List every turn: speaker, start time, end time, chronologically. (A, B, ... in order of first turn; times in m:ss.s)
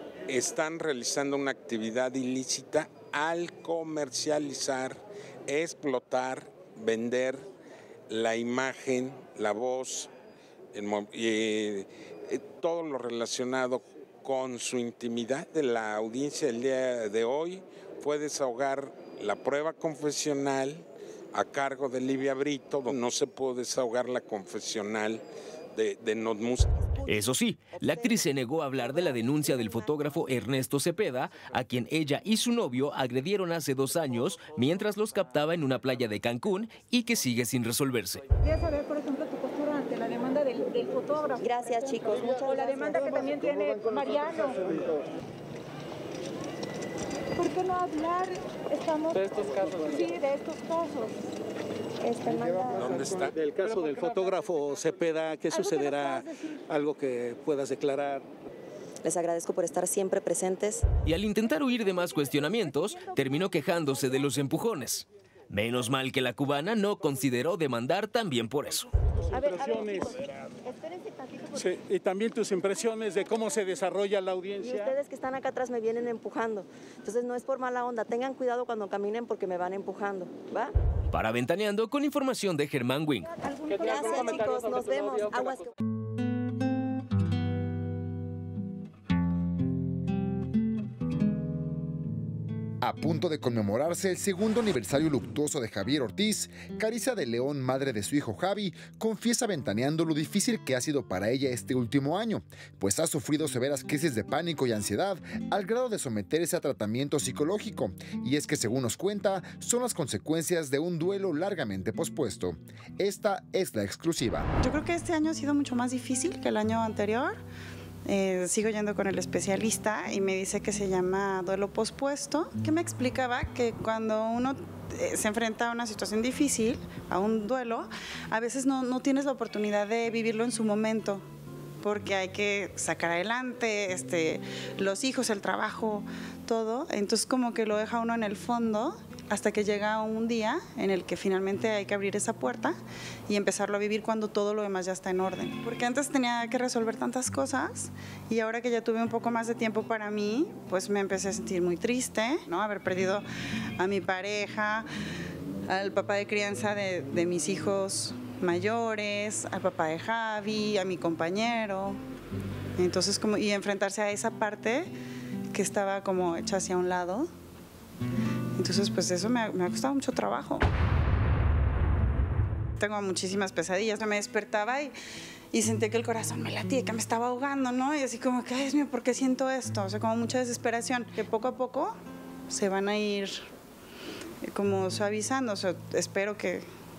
0:00.3-0:07.4 A
0:08.1-0:10.1 A
0:10.7-0:25.2 A
0:25.7-0:26.7 A
0:27.1-0:38.2 B
0:27.8-0:28.1 C
0:38.5-0:41.4 D
0:41.4-0:43.1 C
0:42.5-0:44.6 D
0:47.4-0:51.1 D
0:52.0-0:52.9 C
0:52.8-0:53.3 A
0:53.4-0:58.2 E
0:55.5-0:56.3 D
0:59.0-1:00.8 C
1:01.0-1:08.9 B
1:09.3-1:10.2 E
1:11.4-1:15.0 E
1:14.6-1:20.7 C
1:21.1-1:23.3 B
1:23.4-1:25.7 C
1:32.8-1:54.5 F
1:54.6-1:57.4 G
1:58.0-2:11.2 G
2:11.8-2:22.8 G
2:23.3-2:33.2 G
2:33.8-2:34.9 G
2:35.7-2:42.0 G
2:42.8-2:44.9 G
2:45.5-2:47.3 G
2:48.6-2:50.7 G
2:52.8-2:54.9 G
2:55.5-3:02.0 G
3:02.5-3:03.4 G
3:04.4-3:06.6 G